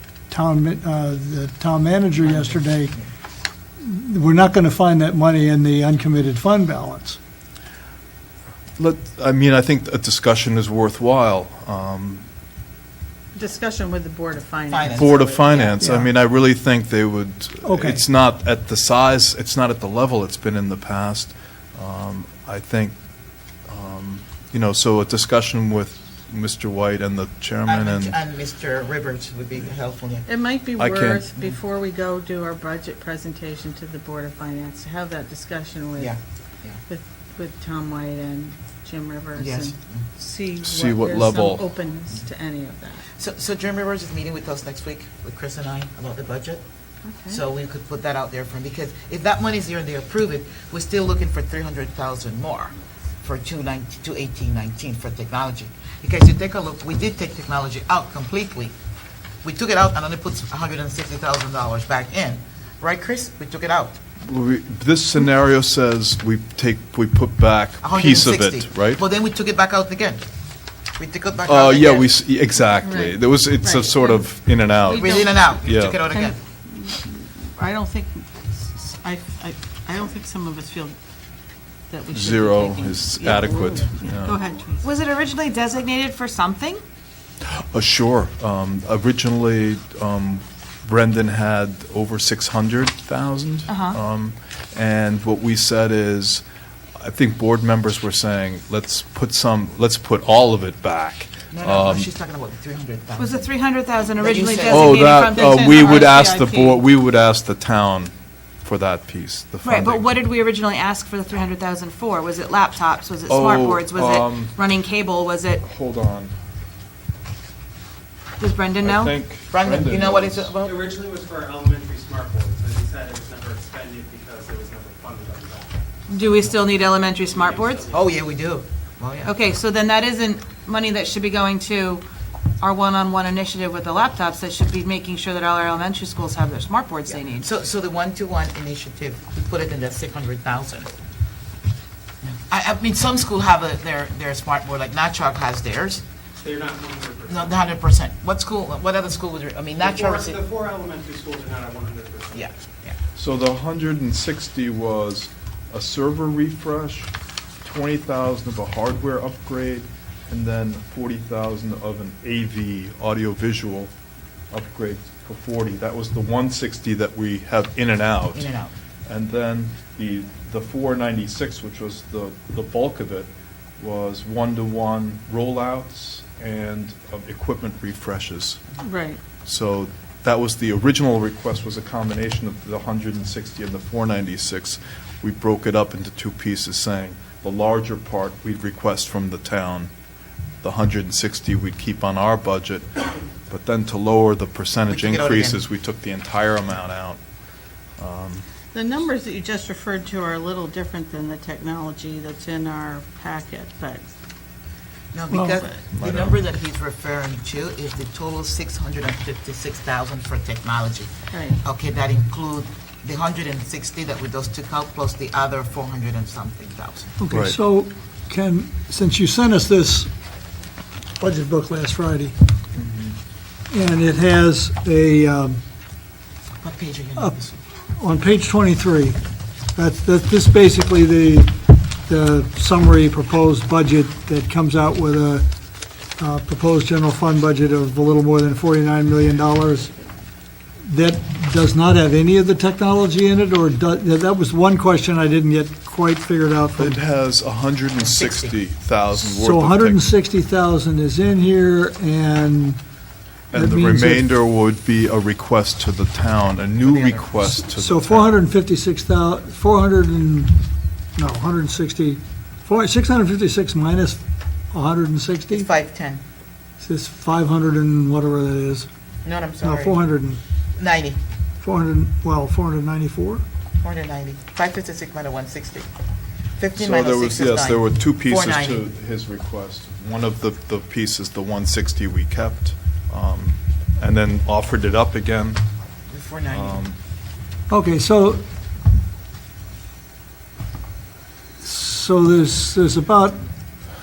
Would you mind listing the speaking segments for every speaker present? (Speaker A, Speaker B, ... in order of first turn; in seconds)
Speaker A: 0.3-3.0, 3.8-7.2, 15.8-16.1, 17.6-18.0, 205.3-205.6, 217.2-220.1, 221.2-222.3, 223.7-225.6, 228.0-229.2, 229.8-235.5, 236.2-239.9, 240.9-247.0, 249.1-252.8, 253.5-254.3, 257.6-260.6, 261.2-265.7, 266.8-268.9, 269.6-270.4, 271.6-273.4, 287.7-288.4, 291.6-293.5
Speaker B: 2.3-3.0, 14.7-15.8, 27.7-30.3, 31.3-31.6, 36.0-36.8, 39.4-40.0, 43.2-46.6, 47.3-58.7, 59.4-64.0, 67.8-70.2, 71.0-72.1, 75.0-76.4, 101.5-103.5, 104.2-105.6, 119.5-120.8, 127.9-129.3, 137.1-140.9, 142.2-146.0, 147.3-150.4, 152.3-153.0, 168.3-168.7, 194.9-195.6, 205.1-217.1, 226.6-227.5, 248.0-248.6, 256.8-257.3, 265.5-266.2, 269.2-270.0, 270.8-271.2, 273.8-275.9, 276.6-278.8, 286.1-286.8
Speaker C: 8.8-12.2, 14.9-23.0, 23.7-28.2, 30.8-31.3, 40.6-41.6, 64.2-69.0, 71.5-76.0, 82.1-84.4, 87.4-96.4, 97.0-102.1, 104.7-108.1, 108.6-110.1, 113.3-114.6, 115.6-116.3, 118.8-120.5, 153.2-157.1, 157.6-163.9, 164.5-168.5, 169.1-178.6, 179.4-189.9, 190.6-197.2, 198.0-198.4, 206.0-206.4, 217.3-217.6, 222.8-223.2, 246.8-250.2, 253.5-258.4, 276.8-285.6, 286.5-287.0
Speaker D: 13.3-15.2, 30.3-36.2, 36.9-43.0, 72.8-74.3, 74.8-75.5, 76.1-81.0, 81.9-84.9, 105.2-106.8, 178.8-179.2, 198.7-204.1, 211.3-211.6
Speaker E: 47.1-47.4, 84.8-86.8, 93.7-94.0, 103.2-106.0, 109.6-115.6, 118.4-119.1, 126.1-127.9, 129.2-132.1, 132.6-137.5
Speaker F: 120.6-125.8, 126.3-128.2, 146.4-147.7, 149.8-152.6